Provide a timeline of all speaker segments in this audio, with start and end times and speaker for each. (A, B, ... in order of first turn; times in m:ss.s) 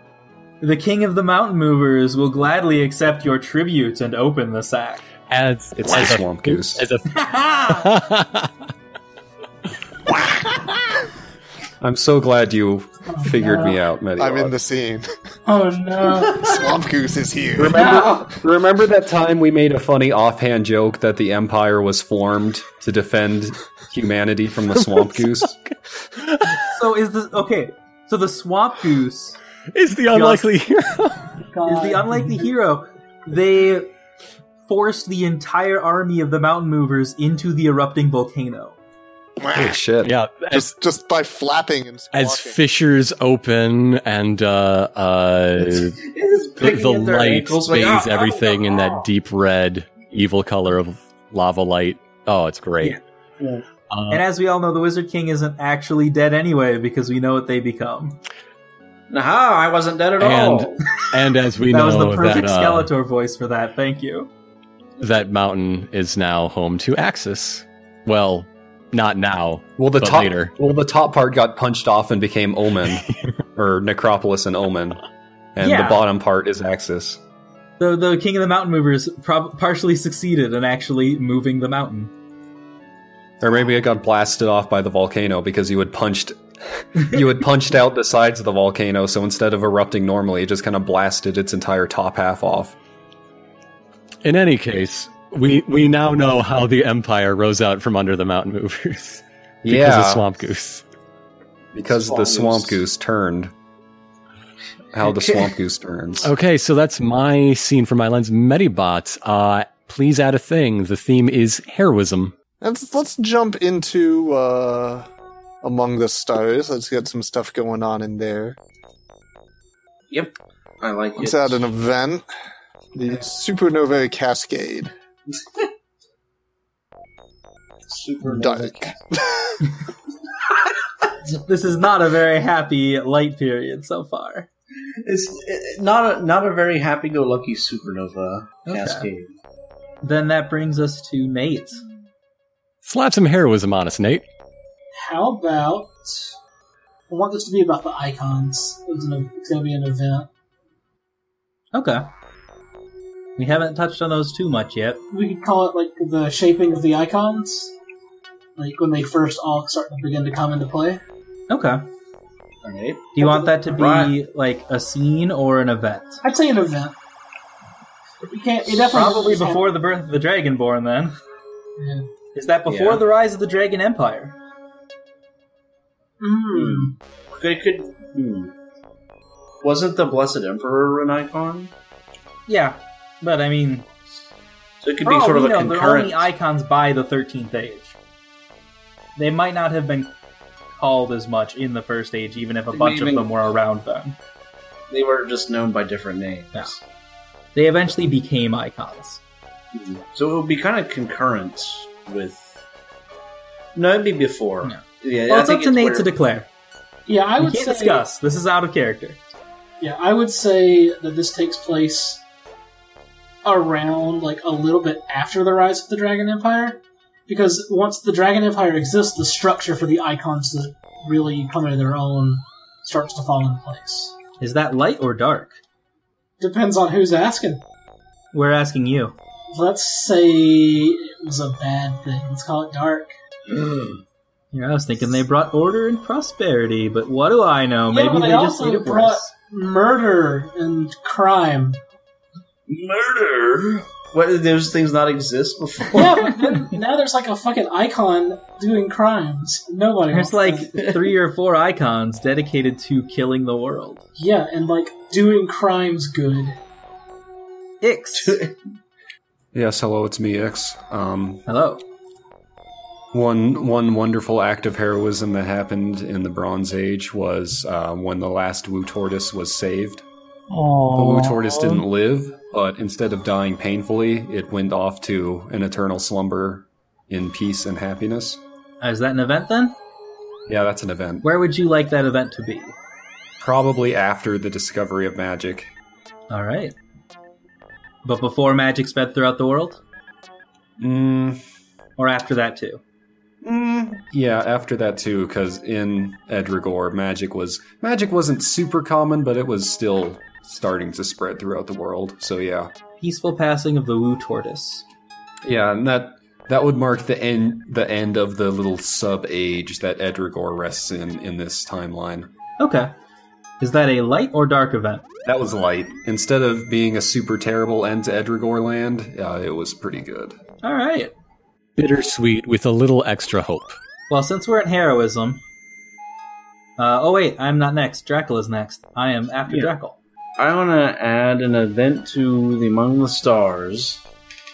0:00.6-0:05.0 A
0:05.3-0:08.5 B
0:05.8-0:06.8 C
0:07.2-0:07.9 A
0:11.8-0:14.6 C
0:13.1-0:13.8 D
0:14.2-0:15.1 E
0:15.5-0:16.8 D
0:16.4-0:18.0 E
0:17.6-0:25.6 C
0:17.8-0:18.2 D
0:24.8-0:26.7 B
0:26.6-0:29.4 A
0:29.7-0:31.3 B
0:30.1-0:30.5 A
0:31.5-0:32.5 D
0:31.7-0:33.9 A
0:34.7-0:38.8 A
0:39.4-0:39.8 E
0:39.5-0:40.1 C
0:40.0-0:40.7 B
0:40.5-0:42.6 E
0:42.1-0:46.0 B
0:45.8-0:49.1 F
0:46.6-0:53.0 B
0:53.4-0:53.7 F
0:53.9-0:54.3 B
0:54.1-0:58.2 A
0:59.1-1:00.8 F
1:00.2-1:02.9 B
1:01.7-1:04.3 A
1:05.0-1:10.5 B
1:09.8-1:15.0 C
1:15.6-1:17.2 C
1:15.6-1:16.0 A
1:17.8-1:22.1 A
1:23.4-1:32.8 C
1:34.2-1:40.8 B
1:39.6-1:40.3 C
1:41.7-1:43.5 C
1:41.9-1:42.8 F
1:44.9-1:46.3 C
1:45.1-1:45.4 F
1:46.2-1:52.3 B
1:52.6-1:55.1 E
1:55.6-1:58.6 E
2:00.1-2:01.6 F
2:01.2-2:02.2 E
2:03.0-2:04.9 E
2:07.9-2:09.0 F
2:08.2-2:09.6 E
2:11.3-2:14.5 A
2:14.9-2:19.3 F
2:18.7-2:19.1 A
2:20.0-2:21.8 A
2:22.8-2:24.3 B
2:24.9-2:26.3 D
2:27.1-2:30.3 D
2:31.7-2:32.1 A
2:33.4-2:35.0 A
2:35.1-2:37.7 D
2:38.6-2:41.0 D
2:41.5-2:41.8 A
2:42.6-2:44.2 F
2:43.2-2:46.2 A
2:46.2-2:47.0 D
2:48.2-2:49.6 D
2:48.7-2:51.1 A
2:51.8-2:52.0 D
2:52.4-2:54.4 A
2:52.7-2:53.0 F
2:56.2-2:56.9 D
2:56.5-2:58.5 F
2:59.6-3:01.7 F
3:02.5-3:03.9 A
3:04.8-3:06.3 F
3:05.0-3:08.0 A
3:09.2-3:10.1 A
3:10.8-3:14.2 A
3:12.7-3:13.3 F
3:14.9-3:16.8 F
3:17.6-3:19.2 A
3:19.7-3:22.6 F
3:23.8-3:26.1 F
3:24.6-3:26.5 A
3:27.1-3:28.0 D
3:27.4-3:29.2 A
3:29.8-3:32.2 D
3:33.4-3:44.1 D
3:44.4-3:45.5 A
3:46.4-3:47.6 D
3:48.3-3:49.2 A
3:49.5-3:53.1 D
3:53.5-3:54.0 F
3:54.5-3:59.3 A
3:57.9-4:01.8 D
4:02.7-4:06.3 F
4:05.9-4:10.7 D
4:10.1-4:14.0 A
4:10.8-4:11.0 F
4:14.2-4:16.6 D
4:17.8-4:18.4 A
4:18.2-4:18.6 F
4:19.5-4:21.4 C
4:21.5-4:21.8 A
4:23.1-4:30.0 C
4:30.6-4:31.7 D
4:30.9-4:38.4 C
4:38.8-4:39.8 A
4:40.5-4:41.2 C
4:41.2-4:42.8 A
4:43.4-4:45.7 C
4:46.3-4:46.8 A
4:48.0-4:49.8 A
4:50.8-4:51.4 C
4:52.0-4:52.8 A
4:53.4-5:02.7 C
5:03.0-5:04.9 A
5:05.4-5:12.3 C
5:12.6-5:12.9 A
5:13.6-5:15.0 A
5:15.3-5:20.4 C
5:20.6-5:21.1 A
5:21.8-5:23.8 B
5:24.1-5:25.4 A
5:26.8-5:30.0 A
5:30.4-5:34.0 F